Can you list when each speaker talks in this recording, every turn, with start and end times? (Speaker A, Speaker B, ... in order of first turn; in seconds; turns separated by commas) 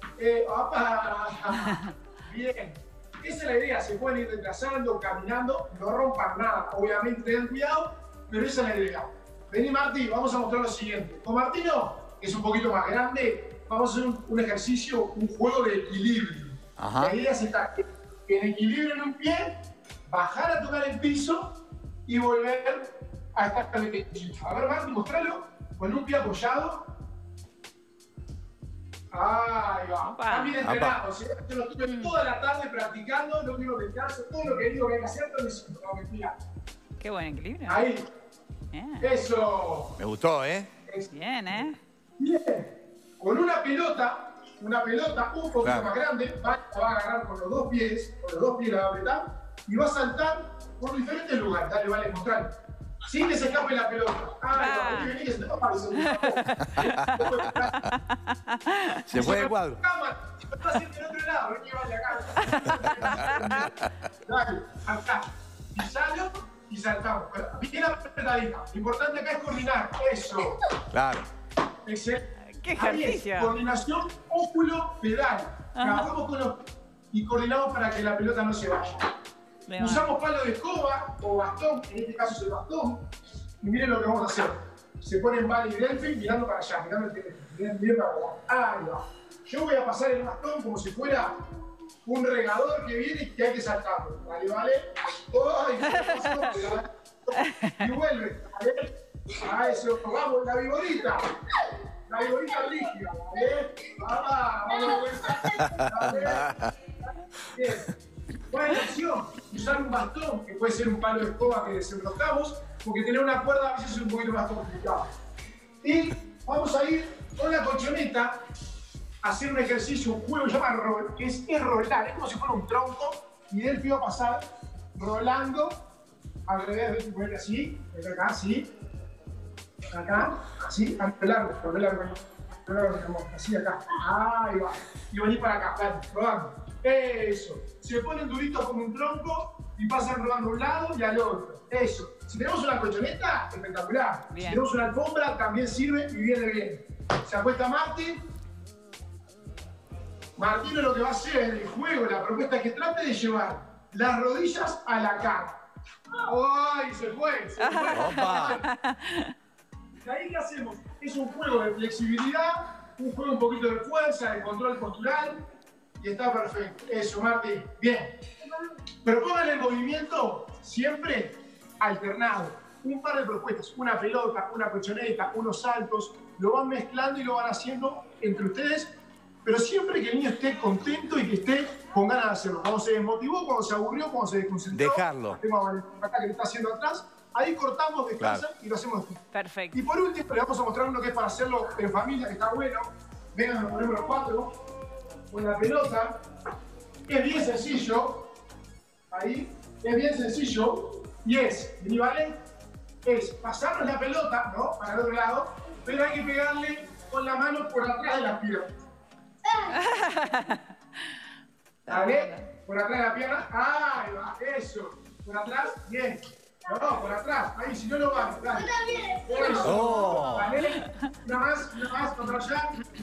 Speaker A: 0.2-26.9, Speaker B: 16.8-17.2, Speaker A: 29.1-36.3, Speaker C: 30.0-30.6, Speaker B: 30.6-31.0, Speaker C: 31.9-32.1, Speaker C: 37.0-37.9, Speaker A: 37.7-38.0, Speaker C: 38.7-39.1, Speaker A: 39.0-40.0, Speaker B: 40.0-40.7, Speaker A: 40.9-57.9, Speaker C: 41.1-41.8, Speaker B: 45.6-45.9, Speaker C: 54.5-55.1, Speaker C: 56.0-56.4, Speaker B: 56.7-57.3, Speaker C: 57.9-59.0, Speaker B: 59.1-59.8, Speaker A: 59.1-63.7, Speaker C: 62.4-63.7, Speaker A: 64.2-70.6, Speaker B: 70.9-71.3, Speaker A: 71.8-79.1, Speaker C: 72.6-73.6, Speaker C: 75.8-76.1, Speaker C: 79.7-80.1, Speaker A: 79.8-83.1, Speaker A: 83.6-91.4, Speaker A: 92.0-101.3, Speaker A: 102.1-107.9, Speaker B: 105.5-106.7, Speaker A: 108.5-115.1, Speaker A: 115.8-118.4, Speaker A: 119.2-125.8, Speaker A: 126.5-128.7, Speaker A: 129.9-148.2, Speaker C: 144.3-144.6, Speaker A: 150.3-155.6, Speaker A: 156.1-158.7, Speaker C: 157.6-159.3, Speaker B: 157.9-158.6, Speaker A: 160.0-165.4, Speaker A: 166.0-168.2, Speaker A: 169.0-194.6, Speaker B: 184.7-185.4, Speaker C: 189.3-189.8, Speaker A: 195.3-196.2, Speaker A: 197.1-198.3, Speaker A: 199.1-202.4, Speaker A: 203.0-208.7, Speaker C: 209.7-210.6, Speaker C: 211.9-212.4, Speaker A: 211.9-222.8, Speaker B: 219.6-220.6